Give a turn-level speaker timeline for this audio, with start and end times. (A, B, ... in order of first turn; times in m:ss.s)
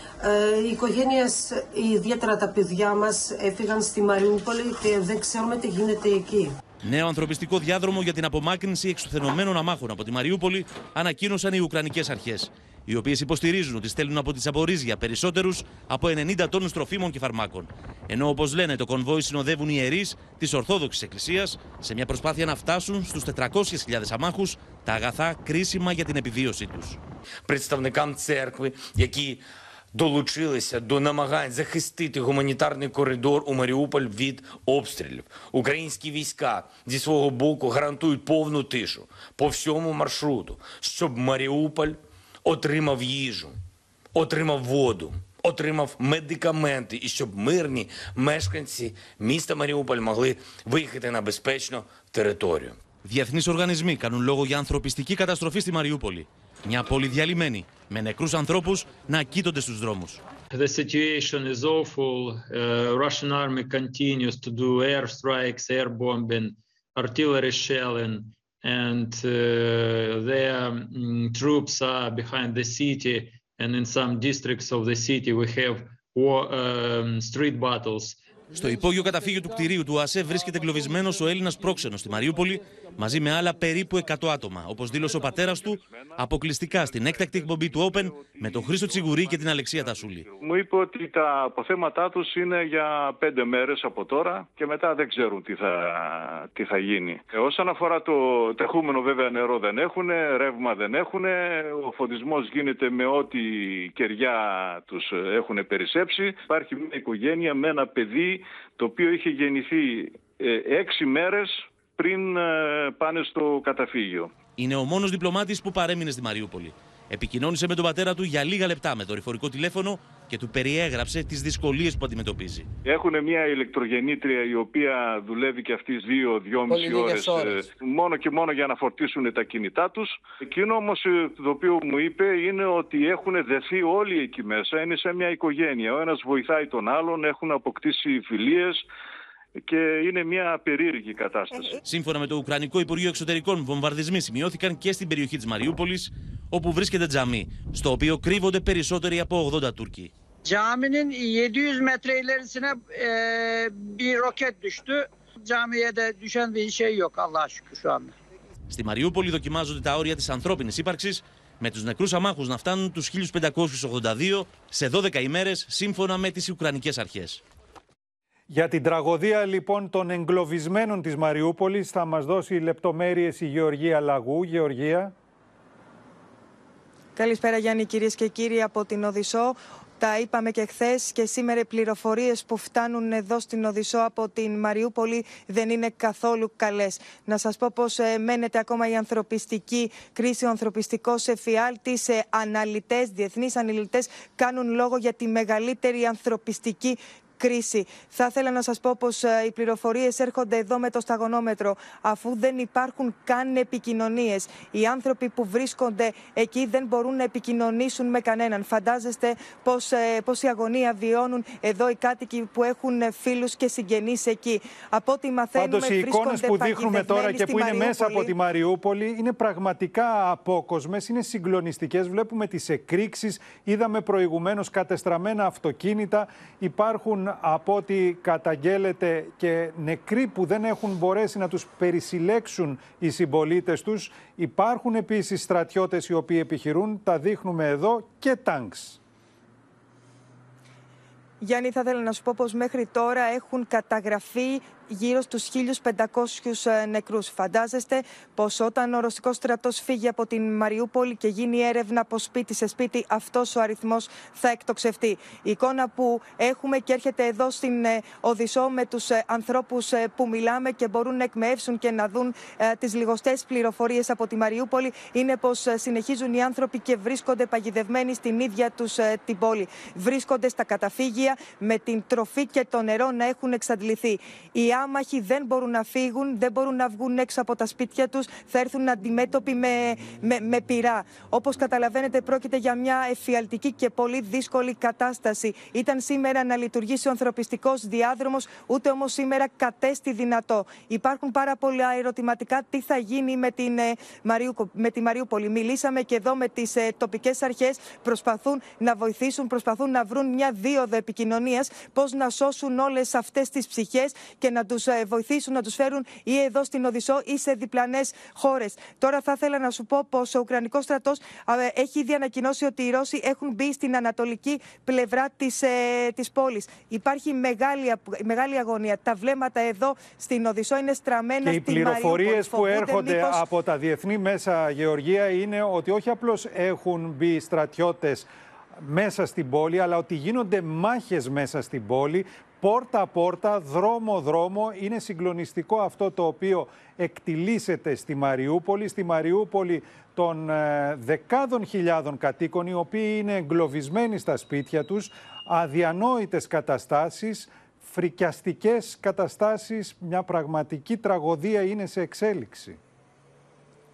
0:00.2-0:06.6 A
0:06.8-0:27.0 B
0:27.5-0:43.6 C
0:44.2-0:52.8 C
0:53.0-1:00.2 B
1:00.5-1:18.2 D
1:18.5-1:30.3 B
1:26.9-1:29.3 E
1:30.4-1:54.3 E
1:54.6-2:02.7 B
2:02.8-2:18.8 E
2:06.7-2:07.5 A
2:19.7-2:21.8 E
2:21.9-2:30.1 B
2:30.4-2:38.2 F
2:38.7-2:47.4 B
2:48.5-2:55.1 G
2:57.2-3:38.3 H
3:35.6-3:59.0 G
4:01.4-5:23.4 H
5:21.4-5:52.8 G